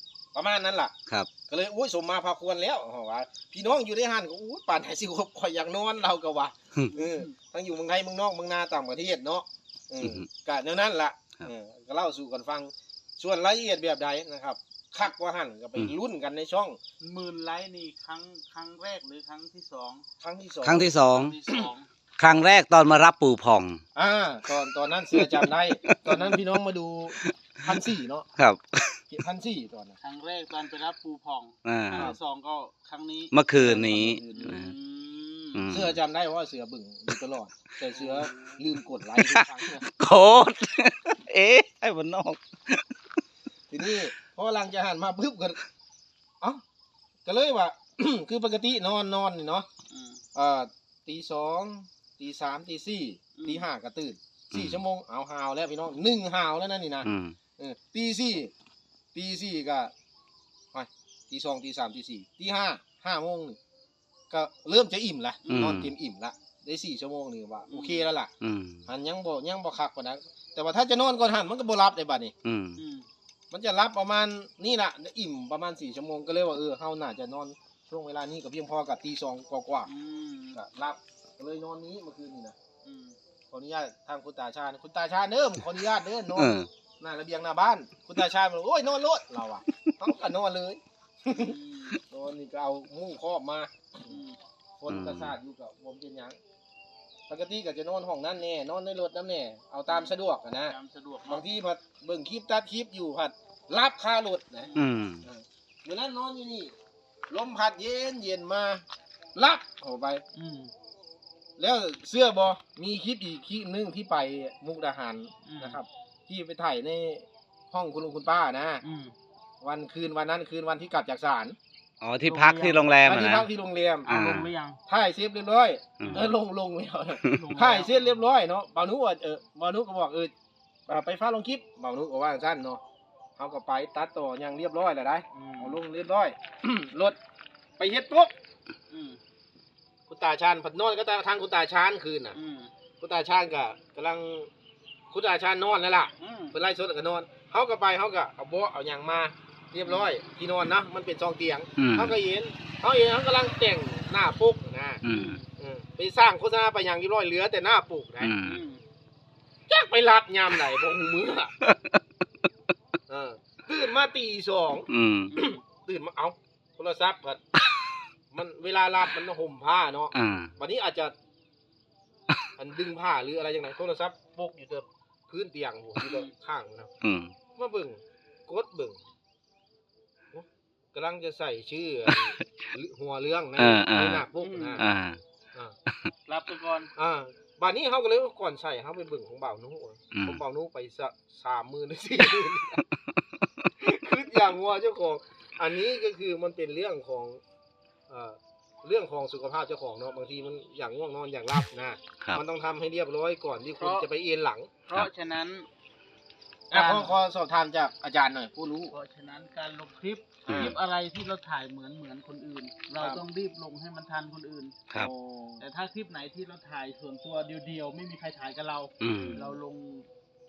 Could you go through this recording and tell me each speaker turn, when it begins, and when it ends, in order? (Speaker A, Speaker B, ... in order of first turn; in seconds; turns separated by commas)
Speaker A: 0.3-0.9, Speaker A: 1.5-16.8, Speaker B: 6.9-7.3, Speaker C: 10.0-10.3, Speaker B: 17.0-20.0, Speaker A: 20.2-20.9, Speaker C: 20.6-21.4, Speaker B: 21.0-21.9, Speaker C: 22.2-23.8, Speaker A: 23.9-28.3, Speaker C: 25.1-26.4, Speaker C: 27.2-27.8, Speaker C: 28.4-28.9, Speaker A: 29.1-29.9, Speaker B: 30.0-33.3, Speaker C: 31.6-32.1, Speaker C: 33.3-34.7, Speaker A: 33.6-34.6, Speaker B: 34.3-35.7, Speaker C: 35.5-36.0, Speaker A: 35.7-39.9, Speaker B: 37.9-38.6, Speaker C: 39.2-42.9, Speaker A: 43.7-45.6, Speaker A: 47.2-49.7, Speaker B: 49.9-50.2, Speaker A: 50.3-58.5, Speaker B: 53.3-53.6, Speaker C: 54.5-54.8, Speaker C: 57.0-57.4, Speaker A: 59.1-59.9, Speaker A: 60.7-63.6, Speaker A: 64.3-68.3, Speaker B: 65.4-65.7, Speaker C: 65.5-65.9, Speaker B: 67.7-68.1, Speaker C: 68.4-68.8, Speaker A: 68.9-72.3, Speaker C: 72.4-72.8, Speaker B: 72.8-73.1, Speaker A: 73.5-79.9, Speaker B: 79.8-80.6, Speaker A: 80.5-82.5, Speaker B: 82.8-83.2, Speaker A: 83.5-94.2, Speaker C: 86.3-86.7, Speaker B: 91.3-92.0, Speaker B: 94.0-94.4, Speaker A: 94.8-96.4, Speaker C: 94.9-95.3, Speaker A: 97.3-100.8, Speaker B: 99.9-100.1, Speaker B: 100.7-101.5, Speaker A: 101.3-104.7, Speaker B: 104.6-104.9, Speaker C: 104.8-105.2, Speaker A: 105.2-106.7, Speaker A: 107.3-108.8, Speaker A: 109.3-110.2, Speaker B: 110.3-110.7, Speaker A: 111.6-118.8, Speaker B: 115.4-115.8, Speaker B: 118.8-119.1, Speaker A: 119.6-121.5, Speaker C: 122.0-123.5, Speaker B: 122.2-122.9, Speaker A: 123.0-124.1, Speaker B: 124.0-124.8, Speaker C: 124.1-124.5, Speaker A: 124.9-130.3, Speaker C: 126.0-126.3, Speaker B: 126.0-126.3, Speaker B: 127.3-128.2, Speaker A: 130.9-132.8, Speaker A: 133.4-137.2, Speaker B: 135.3-135.8, Speaker A: 137.8-138.3, Speaker B: 138.9-139.2, Speaker A: 140.1-142.4, Speaker B: 142.3-142.7, Speaker A: 143.0-144.5, Speaker A: 145.1-155.0, Speaker B: 146.2-146.5, Speaker C: 151.8-152.1, Speaker C: 155.0-155.4, Speaker B: 155.0-155.5, Speaker A: 155.6-158.3, Speaker C: 158.2-158.6, Speaker B: 158.4-158.8, Speaker A: 159.7-161.5, Speaker C: 161.6-162.0, Speaker A: 163.1-167.4, Speaker C: 164.9-165.3, Speaker B: 165.3-165.6, Speaker A: 168.3-171.1, Speaker C: 170.1-170.5, Speaker A: 172.6-176.9, Speaker B: 176.0-176.3, Speaker C: 177.0-177.3, Speaker A: 177.6-179.0, Speaker A: 180.3-184.8, Speaker C: 182.1-182.4, Speaker C: 183.6-184.2, Speaker B: 184.4-184.8, Speaker C: 184.8-185.2, Speaker C: 185.9-186.1, Speaker B: 186.3-186.9, Speaker A: 186.9-192.8, Speaker C: 190.1-190.4, Speaker A: 193.8-197.4, Speaker A: 198.1-204.7, Speaker B: 203.8-204.1, Speaker B: 204.8-205.7, Speaker A: 206.7-208.9, Speaker B: 206.7-207.1, Speaker B: 208.9-214.8, Speaker A: 210.4-210.8, Speaker C: 210.5-210.7, Speaker A: 214.9-215.6, Speaker B: 215.6-220.1, Speaker C: 219.0-219.4, Speaker A: 219.2-219.6